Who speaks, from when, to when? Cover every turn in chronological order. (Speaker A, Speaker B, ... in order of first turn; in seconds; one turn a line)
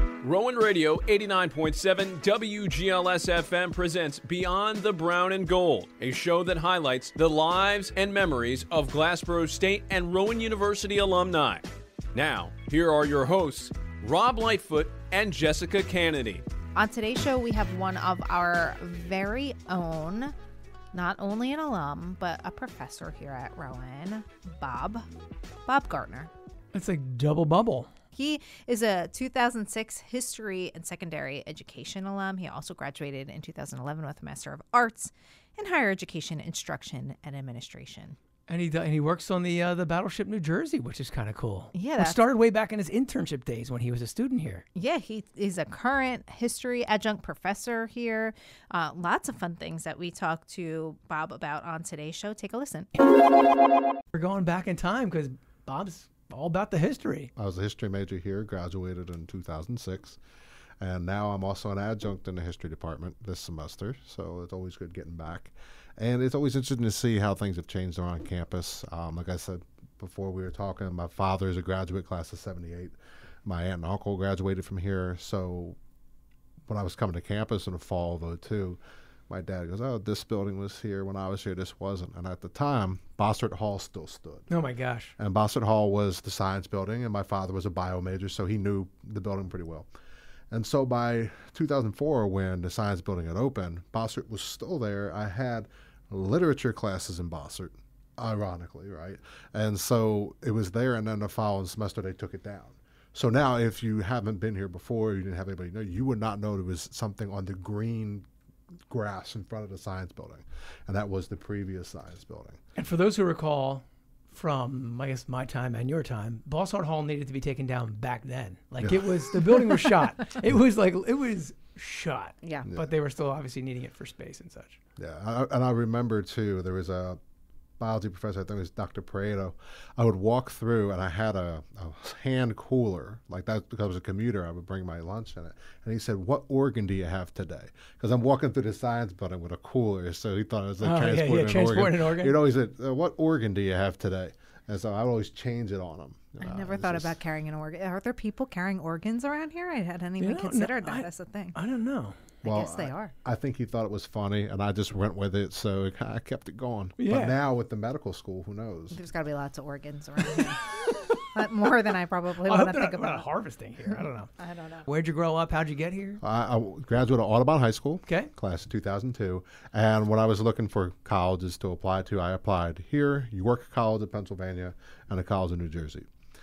Speaker A: 0.2-16.4
Speaker B: 16.8-20.3
Speaker B: 20.9-25.1
Speaker B: 25.7-26.3
Speaker C: 26.7-27.9
Speaker B: 28.2-38.2
Speaker C: 38.5-44.6
Speaker B: 41.7-42.2
Speaker B: 44.8-52.9
Speaker C: 54.1-57.3
Speaker D: 57.4-60.2
Speaker D: 60.8-75.8
Speaker D: 76.7-84.5
Speaker C: 84.5-85.1
Speaker D: 85.2-89.9
Speaker D: 90.5-108.3
Speaker D: 108.9-112.6
Speaker C: 112.8-124.8
Speaker D: 118.8-119.3
Speaker D: 125.0-127.2
Speaker D: 127.8-147.1
Speaker C: 140.8-142.4
Speaker B: 146.4-151.6
Speaker C: 150.2-152.2
Speaker B: 152.4-153.1
Speaker D: 152.4-159.0
Speaker C: 157.0-157.4
Speaker B: 158.9-163.3
Speaker C: 160.3-161.2
Speaker C: 162.4-164.3
Speaker B: 163.9-164.9
Speaker C: 164.9-166.2
Speaker D: 166.2-176.1